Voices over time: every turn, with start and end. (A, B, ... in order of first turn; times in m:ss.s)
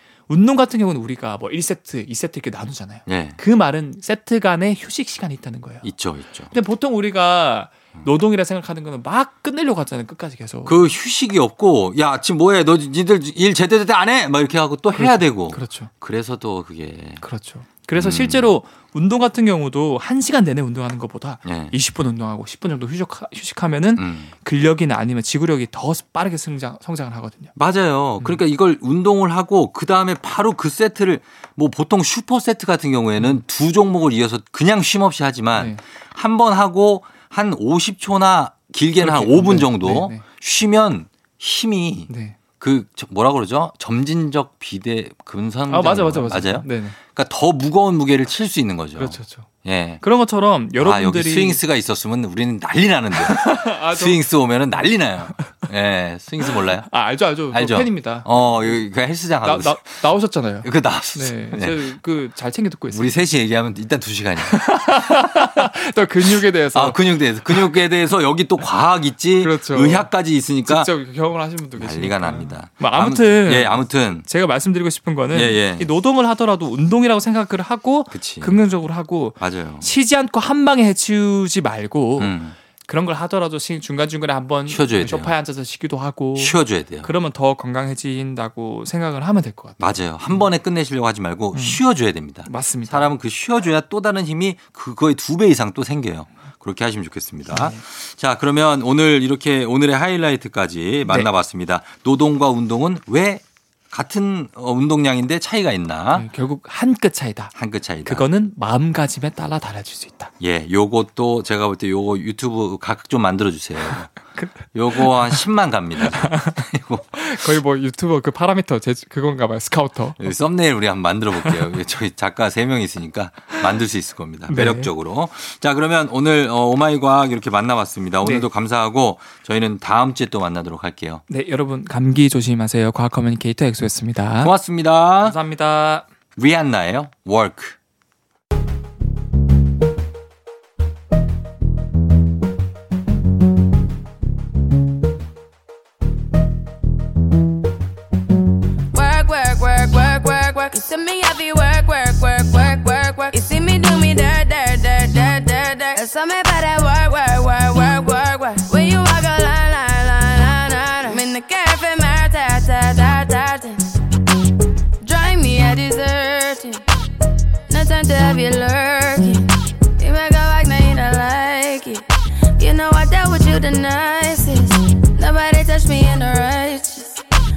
0:00.3-0:05.9 A
0:03.1-0:03.4 B
0:05.8-0:06.5 B
0:06.5-0:10.8 A
0:10.6-0:17.2 B
0:14.9-0:15.9 A
0:17.2-0:27.5 A
0:18.0-0:18.5 B
0:21.4-0:21.8 B
0:24.0-0:24.3 B
0:27.6-0:50.0 B
0:35.5-0:35.8 A
0:39.0-0:40.2 A
0:42.1-0:42.4 A
0:45.7-0:47.0 A
0:49.0-0:49.5 A
0:50.0-0:51.6 A
0:50.8-0:56.9 B
0:53.1-0:54.2 A
0:56.4-0:58.3 A
0:57.5-1:00.0 B
0:59.4-1:03.2 A
1:00.6-1:01.8 B
1:02.9-1:05.6 B
1:04.4-1:07.6 A
1:06.2-1:10.9 B
1:09.4-1:10.1 A
1:10.6-1:30.5 A
1:11.8-1:14.2 B
1:15.3-1:15.9 B
1:18.1-1:18.6 B
1:19.4-1:19.9 B
1:22.2-1:22.6 B
1:24.7-1:25.3 B
1:26.4-1:27.1 B
1:29.8-1:46.3 B
1:31.5-1:31.8 A
1:32.4-1:33.1 A
1:37.5-1:37.8 A
1:46.1-1:47.5 A
1:47.5-1:48.3 B
1:48.0-1:50.3 A
1:50.4-1:57.6 B
1:54.3-1:55.4 A
1:56.0-2:00.3 A
2:00.2-2:11.2 B
2:04.5-2:04.9 A
2:11.3-2:14.5 A
2:14.4-2:15.4 B
2:15.2-2:16.1 A
2:16.4-2:17.8 B
2:28.9-2:43.9 C
2:45.0-2:46.8 C
2:47.7-2:52.0 C
2:52.6-2:57.2 C